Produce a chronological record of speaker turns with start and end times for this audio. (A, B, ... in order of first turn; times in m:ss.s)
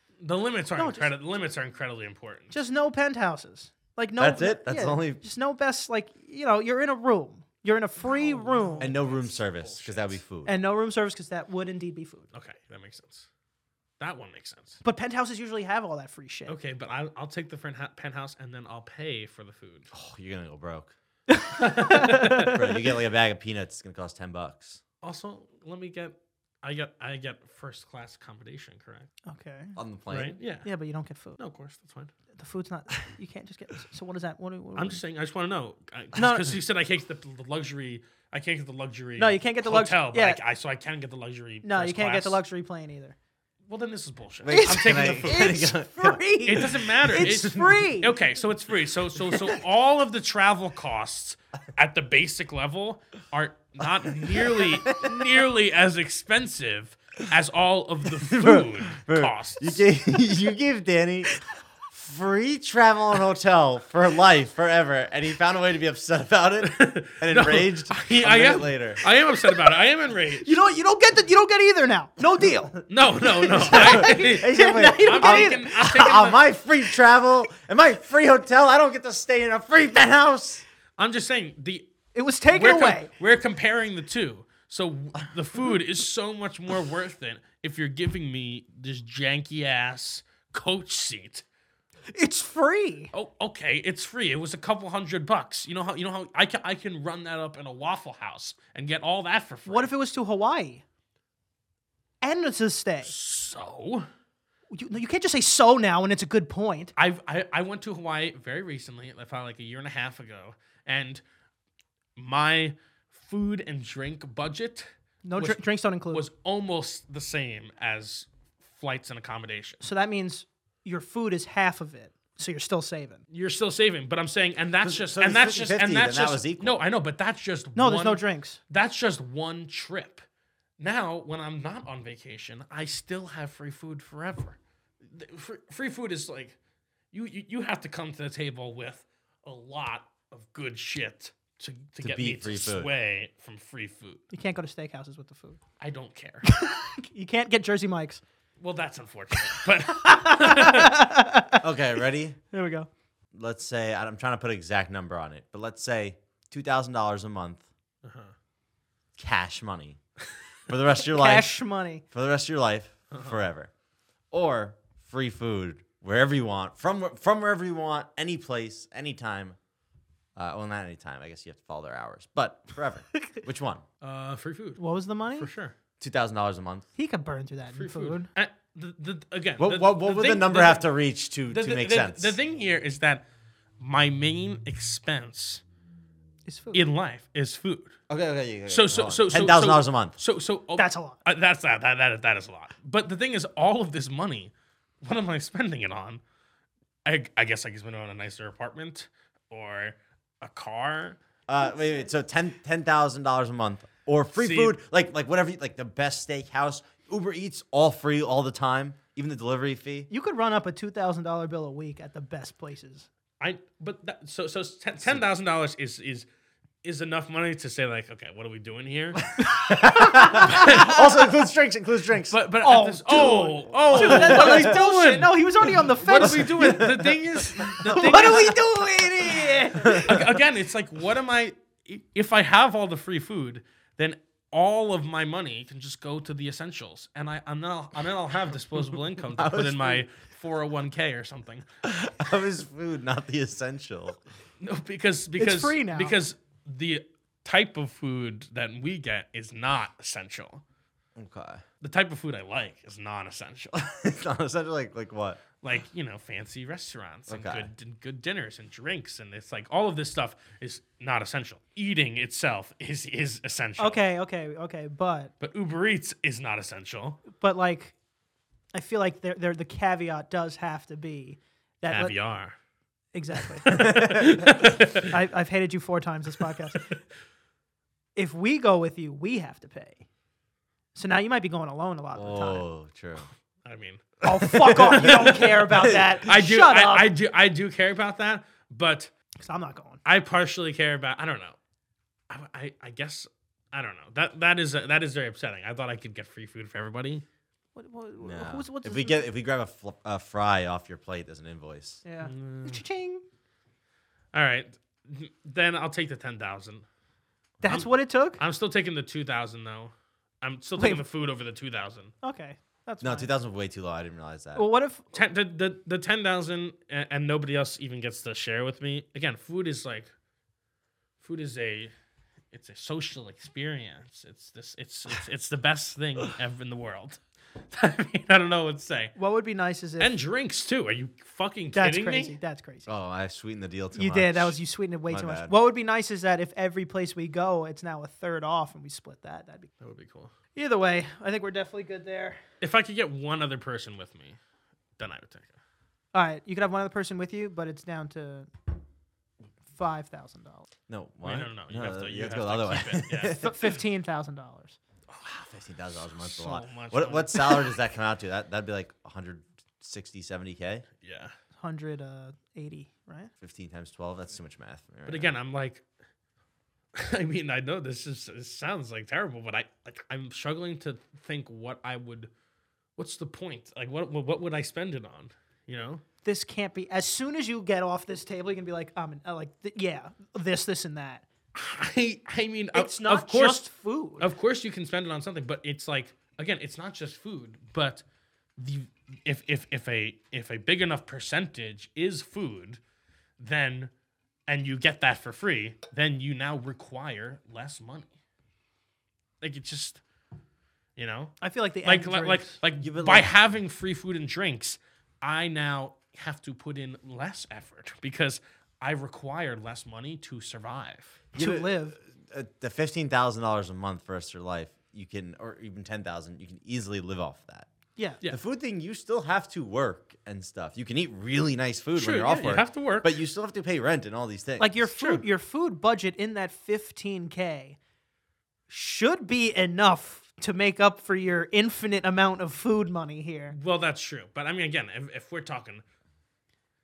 0:00.2-0:02.6 A
0:00.8-0:01.1 B
0:02.5-0:08.9 B
0:04.2-0:05.2 C
0:08.0-0:10.2 A
0:08.8-0:10.5 C
0:10.4-0:12.3 B
0:12.3-0:13.3 A
0:14.0-0:14.8 A
0:14.8-0:16.5 B
0:16.5-0:19.9 A
0:19.9-0:20.9 C
0:21.3-0:22.7 B
0:21.6-0:22.6 A
0:22.4-0:24.8 C
0:25.0-0:29.1 A
0:29.2-0:29.8 B
0:29.8-0:30.4 C
0:30.1-0:30.7 A
0:30.6-0:31.4 B
0:31.4-0:32.1 A
0:32.4-0:35.0 B
0:34.7-0:42.4 A
0:36.2-0:36.6 B
0:39.2-0:40.4 B
0:41.6-0:43.2 B
0:43.7-0:45.6 A
0:44.4-0:46.2 C
0:44.5-0:48.2 B
0:46.4-0:59.8 A
0:54.5-0:55.1 C
0:58.2-1:01.3 C
1:01.9-1:09.0 C
1:06.6-1:10.5 A
1:10.4-1:15.7 B
1:12.4-1:12.6 C
1:12.9-1:16.4 A
1:13.6-1:20.6 C
1:21.0-1:21.9 A
1:22.1-1:23.1 B
1:22.5-1:31.4 A
1:32.1-1:33.1 B
1:33.1-1:39.9 A
1:39.7-1:40.8 B
1:42.2-1:43.1 B
1:43.0-1:44.1 A
1:44.7-1:46.9 B
1:47.0-1:51.2 A
1:52.2-1:55.6 A
1:55.2-1:56.2 B
1:56.1-1:59.8 A
1:59.8-2:03.2 B
2:03.3-2:10.2 A
2:04.8-2:06.8 C
2:07.8-2:08.6 B
2:10.8-2:16.6 A
2:17.1-2:24.2 A
2:22.0-2:22.9 C
2:24.3-2:25.6 B
2:25.8-2:26.5 A
2:26.4-2:28.2 B
2:28.6-2:31.0 A
2:29.5-2:31.6 B
2:31.6-2:32.4 C
2:32.5-2:32.9 B
2:33.3-2:37.6 C
2:38.0-2:38.3 A
2:39.2-2:40.0 C
2:40.7-2:41.5 C
2:41.0-2:42.0 B
2:42.1-2:43.7 C
2:43.1-2:43.4 A
2:44.3-2:49.6 C
2:50.4-2:53.8 C
2:54.0-2:54.8 A
2:54.8-2:55.5 B
2:55.3-2:55.7 A
2:56.0-2:56.8 C
2:57.0-2:58.3 B
2:57.7-3:00.8 A
2:59.6-3:02.4 C
3:01.5-3:03.2 A
3:03.8-3:05.6 A
3:06.4-3:06.8 B
3:06.7-3:08.0 A
3:08.1-3:10.2 C
3:08.7-3:16.2 A
3:10.8-3:11.2 B
3:17.0-3:21.2 A
3:21.5-3:30.1 C
3:24.4-3:24.8 A
3:30.1-3:33.1 B
3:33.4-3:36.3 A
3:36.8-3:39.2 A
3:39.3-3:42.4 C
3:39.5-3:41.3 B
3:40.3-3:40.9 A
3:42.3-3:48.6 A
3:42.6-3:46.8 B
3:43.8-3:44.8 C
3:46.2-3:47.2 C
3:47.8-3:48.3 C
3:47.8-3:50.2 B
3:49.8-4:01.7 A
3:49.8-3:50.2 C
3:59.3-4:00.0 C
4:01.8-4:04.2 C
4:04.6-4:10.6 A
4:05.4-4:06.2 B
4:11.2-4:11.6 C
4:11.8-4:13.8 A
4:13.8-4:15.4 C
4:15.6-4:24.0 A
4:17.3-4:17.7 C
4:23.8-4:25.3 B
4:25.4-4:27.2 A
4:27.4-4:27.9 B
4:28.7-4:32.2 B
4:31.9-4:32.5 A
4:33.1-4:36.9 B
4:33.6-4:35.1 A
4:33.7-4:34.4 C
4:38.2-4:40.0 B
4:40.9-4:42.6 B
4:42.1-4:43.3 C
4:43.6-4:49.1 A
4:44.2-4:47.1 B
4:45.8-4:46.1 C
4:49.4-4:50.0 B
4:50.0-4:51.6 A
4:52.3-4:57.2 A
4:57.8-4:59.2 B
4:58.2-5:02.0 C
5:02.0-5:03.2 B
5:02.2-5:02.8 A
5:04.3-5:06.8 A
5:07.6-5:08.4 B
5:07.6-5:12.1 A
5:10.8-5:11.0 B
5:12.2-5:13.3 B
5:13.0-5:14.6 C
5:14.6-5:15.0 B
5:15.1-5:20.1 A
5:21.2-5:21.9 A
5:22.5-5:29.2 A
5:29.2-5:30.2 B
5:30.0-5:32.4 A
5:31.8-5:32.9 B
5:32.8-5:34.6 C
5:33.9-5:39.7 B
5:35.1-5:35.5 C
5:39.8-5:40.3 A
5:40.5-5:42.4 B
5:42.6-5:44.4 A
5:45.0-5:45.6 A
5:46.1-5:48.5 B
5:49.7-5:50.6 B
5:50.9-5:53.6 C
5:51.2-5:53.4 A
5:53.4-5:54.8 B
5:55.2-6:00.8 C
5:56.2-5:57.7 A
6:01.0-6:01.3 A
6:01.6-6:03.3 B
6:03.4-6:05.3 C
6:05.0-6:05.8 A
6:06.9-6:12.3 A
6:13.0-6:16.0 A
6:16.2-6:21.2 B
6:21.5-6:23.7 A
6:22.7-6:24.3 B
6:24.2-6:28.0 A
6:28.6-6:32.8 A
6:33.4-6:33.9 A
6:34.5-6:38.1 A
6:39.4-6:40.0 A
6:41.0-6:41.3 A
6:41.4-6:42.6 B
6:41.8-6:51.2 A
6:42.8-6:43.3 C
6:51.3-6:57.7 C
6:51.4-6:52.0 B
6:58.3-7:04.8 C
7:02.0-7:03.1 A
7:04.6-7:07.8 B
7:04.9-7:05.2 A
7:08.7-7:13.6 B
7:13.5-7:15.8 A